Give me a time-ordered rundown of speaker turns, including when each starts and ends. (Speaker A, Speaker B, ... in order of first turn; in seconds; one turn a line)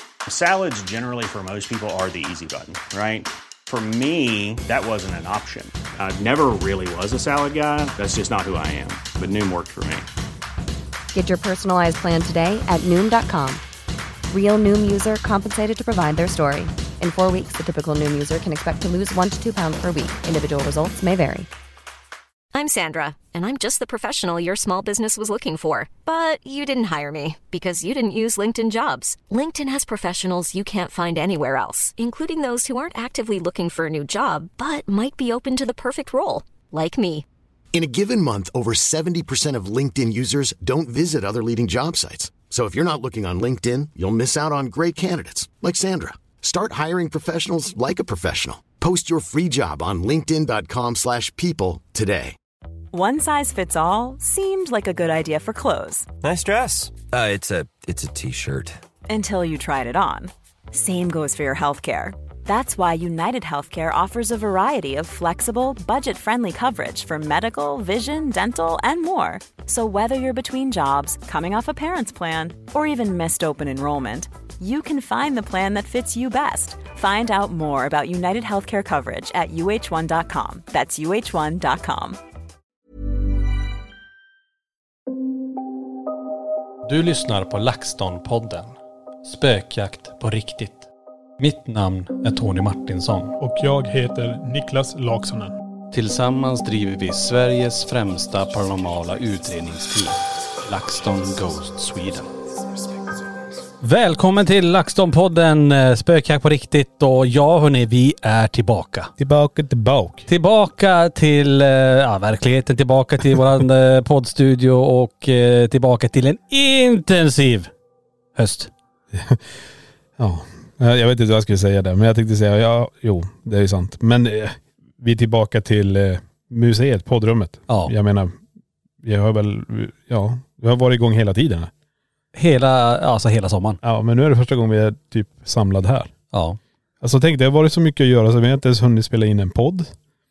Speaker A: 0.2-10.1
Speaker B: 11.1-13.6
Speaker B: 14.3-21.5
Speaker C: 22.5-37.2
Speaker D: 37.7-52.3
Speaker E: 52.9-56.1
Speaker F: 56.2-58.8
Speaker E: 59.1-82.2
Speaker G: 86.8-93.3
Speaker H: 93.4-95.5
Speaker G: 95.9-102.3
Speaker G: 103.8-109.1
Speaker H: 109.2-110.3
Speaker G: 110.3-117.7
Speaker G: 118.3-118.7
Speaker H: 119.1-119.4
Speaker H: 120.2-128.4
Speaker H: 129.0-131.7
Speaker G: 132.3-133.8
Speaker H: 133.8-136.1
Speaker G: 136.3-136.6
Speaker H: 137.0-139.9